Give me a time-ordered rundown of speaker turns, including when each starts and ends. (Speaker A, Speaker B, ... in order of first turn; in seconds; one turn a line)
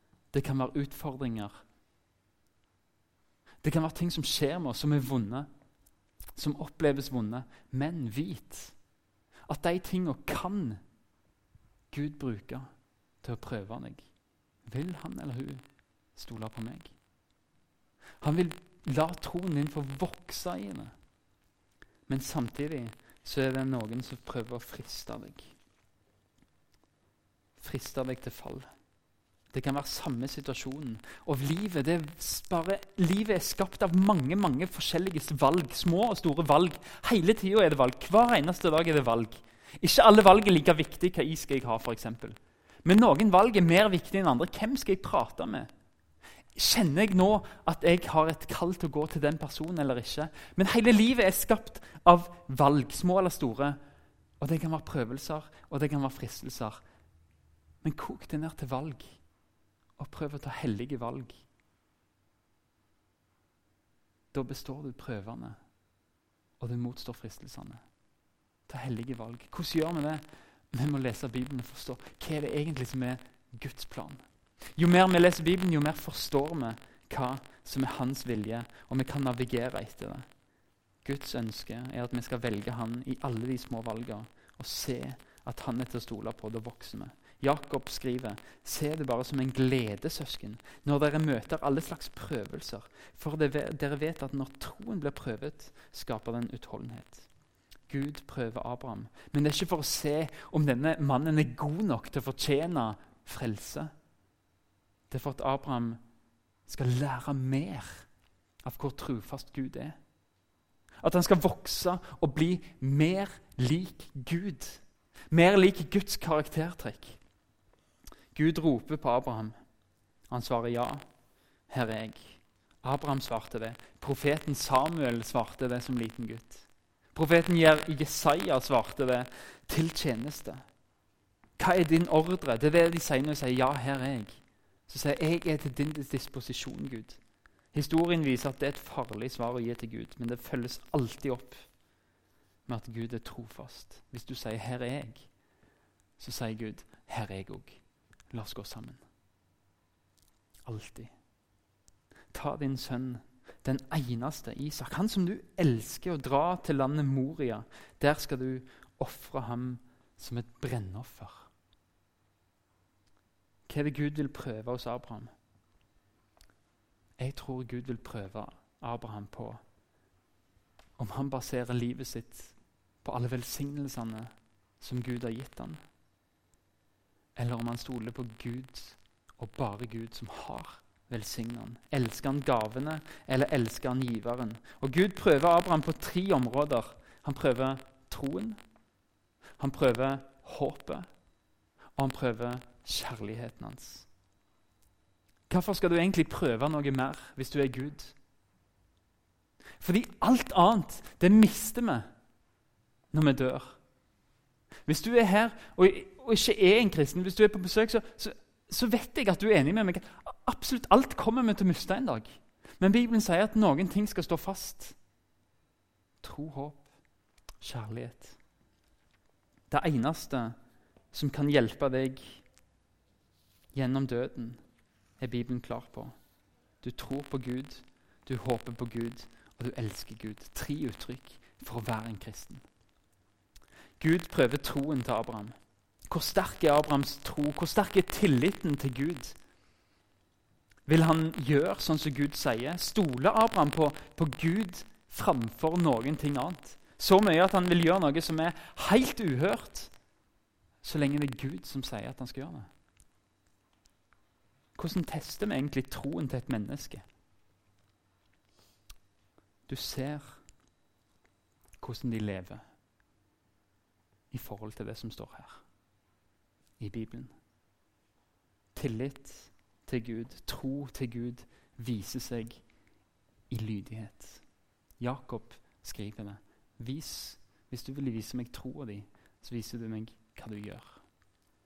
Speaker A: 0.3-1.6
Speaker A: 3.6-5.5
Speaker A: 6.4-8.8
Speaker A: 9.5-10.8
Speaker A: 11.9-12.7
Speaker A: 13.2-14.1
Speaker A: 14.7-15.6
Speaker A: 16.1-16.9
Speaker A: 18.2-20.9
Speaker A: 22.1-25.5
Speaker A: 27.6-28.7
Speaker A: 29.5-45.7
Speaker A: 46.5-53.8
Speaker A: 54.4-56.8
Speaker A: 57.8-59.2
Speaker A: 60.0-61.4
Speaker A: 64.3-65.6
Speaker A: 66.6-67.8
Speaker A: 68.7-74.2
Speaker A: 74.8-80.3
Speaker A: 81.0-97.3
Speaker A: 97.9-103.9
Speaker A: 105.1-106.0
Speaker A: 106.7-108.1
Speaker A: 108.6-110.0
Speaker A: 111.0-117.2
Speaker A: 118.3-119.5
Speaker A: 120.3-121.0
Speaker A: 121.7-130.6
Speaker A: 131.6-137.2
Speaker A: 137.7-141.6
Speaker A: 142.7-145.3
Speaker A: 146.2-147.8
Speaker A: 148.3-149.0
Speaker A: 150.7-151.1
Speaker A: 152.3-161.5
Speaker A: 163.7-165.3
Speaker A: 167.2-169.6
Speaker A: 171.0-175.8
Speaker A: 177.4-188.6
Speaker A: 189.6-191.1
Speaker A: 192.0-194.1
Speaker A: 195.5-198.1
Speaker A: 199.8-202.1
Speaker A: 203.1-203.8
Speaker A: 204.9-215.0
Speaker A: 216.2-216.9
Speaker A: 217.6-218.4
Speaker A: 219.7-220.6
Speaker A: 221.1-222.4
Speaker A: 223.7-224.6
Speaker A: 225.2-226.1
Speaker A: 226.8-232.6
Speaker A: 234.0-235.6
Speaker A: 236.1-239.4
Speaker A: 240.9-249.9
Speaker A: 250.8-252.7
Speaker A: 254.8-257.0
Speaker A: 259.7-260.4
Speaker A: 261.8-262.6
Speaker A: 264.3-265.6
Speaker A: 266.8-267.3
Speaker A: 268.8-272.6
Speaker A: 273.5-274.4
Speaker A: 275.0-281.0